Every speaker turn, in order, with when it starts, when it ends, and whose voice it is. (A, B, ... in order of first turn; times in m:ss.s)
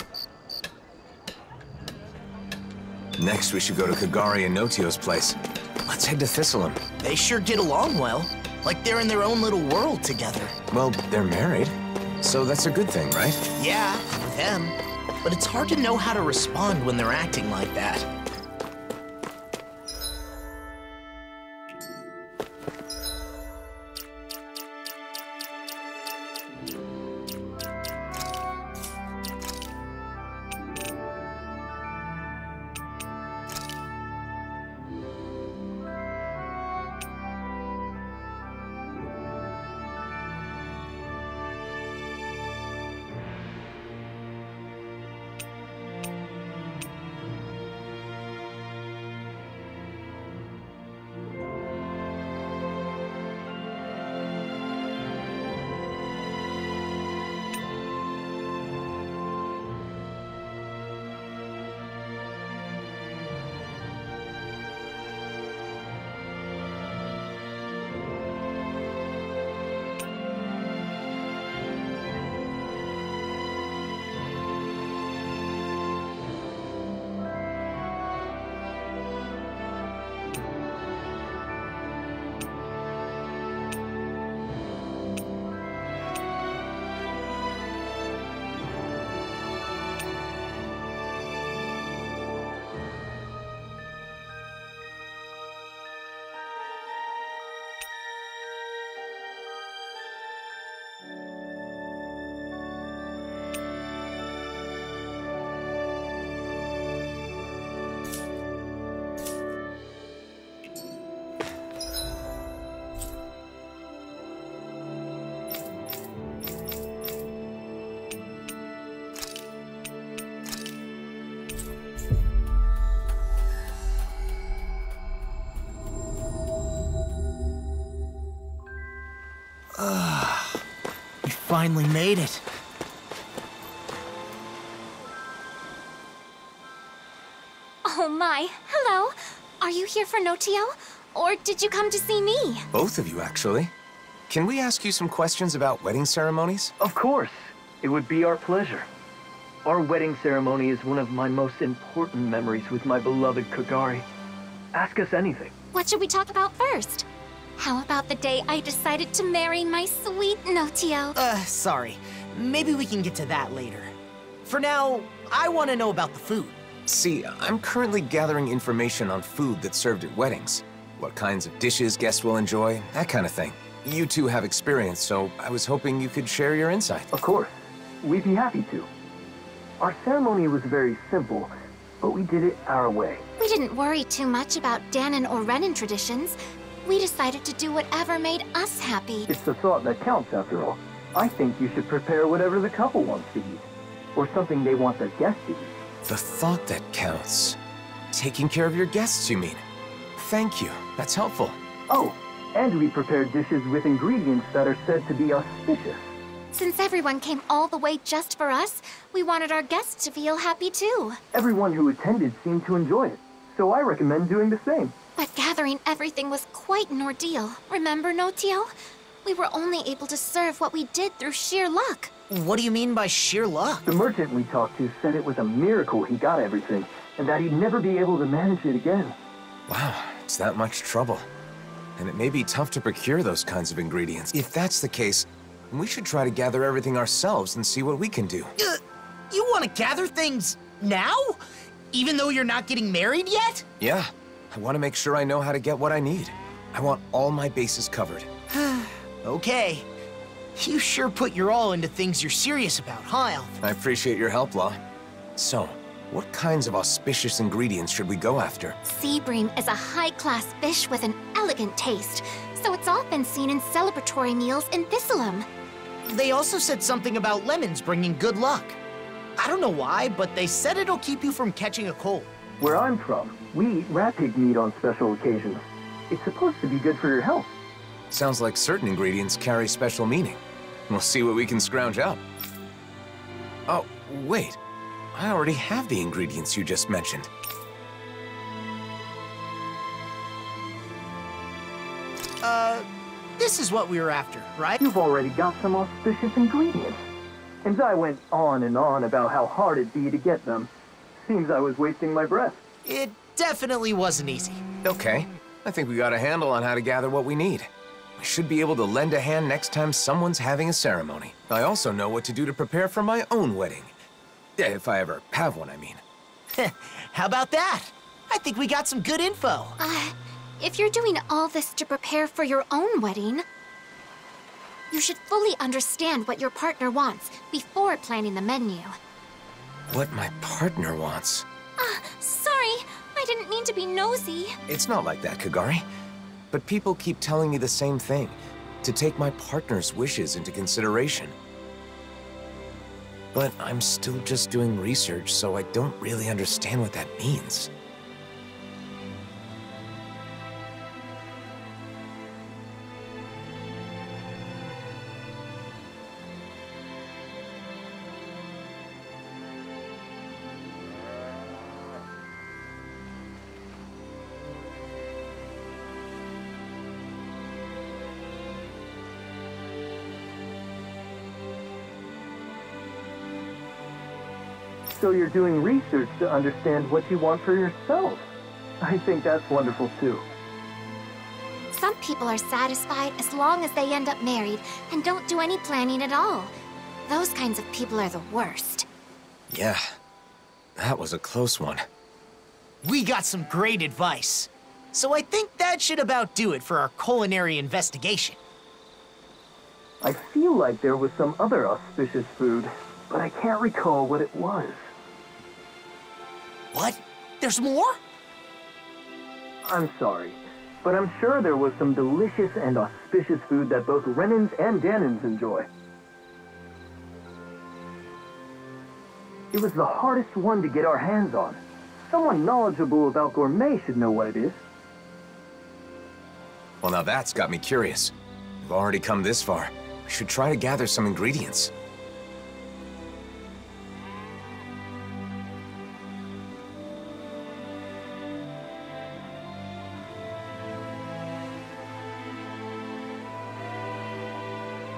0:03.2-0:06.8 A
0:07.0-0:10.6 B
0:10.7-0:13.4 A
0:13.6-0:18.1 B
2:09.7-2:10.6 B
2:11.2-2:12.4 B
2:17.8-2:22.6 C
2:22.7-2:23.7 A
2:24.3-2:26.7 A
2:26.8-2:28.9 D
2:29.6-2:34.1 D
2:34.7-2:35.5 D
2:35.7-2:37.0 C
2:37.6-2:41.2 C
2:41.2-2:43.9 B
2:44.4-2:46.6 B
2:46.9-2:57.1 A
2:57.1-2:58.9 D
2:59.8-3:03.2 D
3:03.4-3:09.3 C
3:09.3-3:15.7 D
3:16.1-3:17.6 A
3:18.1-3:19.6 A
3:20.2-3:21.6 A
3:21.9-3:26.1 D
3:26.6-3:31.2 C
3:31.3-3:34.9 D
3:35.2-3:38.7 C
3:39.3-3:42.1 C
3:42.3-3:43.8 B
3:43.8-3:49.2 D
3:49.7-3:51.3 A
3:52.0-3:58.5 A
3:59.3-4:01.4 B
4:01.9-4:03.6 B
4:03.8-4:08.3 A
4:08.5-4:09.9 B
4:10.6-4:13.5 B
4:13.6-4:14.8 A
4:15.4-4:18.8 A
4:18.9-4:25.5 C
4:26.0-4:28.8 B
4:29.4-4:32.3 B
4:32.6-4:37.5 D
4:38.1-4:42.2 A
4:43.7-4:44.6 A
4:45.1-4:47.3 A
4:52.4-4:52.9 B
4:53.4-4:54.8 B
4:54.8-4:57.1 D
4:57.6-5:02.6 D
5:02.8-5:04.6 B
5:04.8-5:13.9 A
5:14.6-5:16.0 A
5:16.6-5:19.8 B
5:19.8-5:23.4 C
5:24.9-5:28.9 C
5:29.9-5:31.4 A
5:31.8-5:34.5 C
5:34.7-5:35.8 A
5:36.5-5:41.3 A
5:43.3-5:47.7 A
6:14.9-6:18.3 D
6:18.8-6:20.2 D
6:21.7-6:26.5 C
6:27.1-6:28.8 C
6:29.5-6:29.9 A
6:30.8-6:31.9 A
6:32.8-6:38.4 B
6:40.0-6:44.9 D
6:46.7-6:48.0 B
6:49.6-6:55.7 D
6:59.5-7:04.6 D
7:06.8-7:11.7 A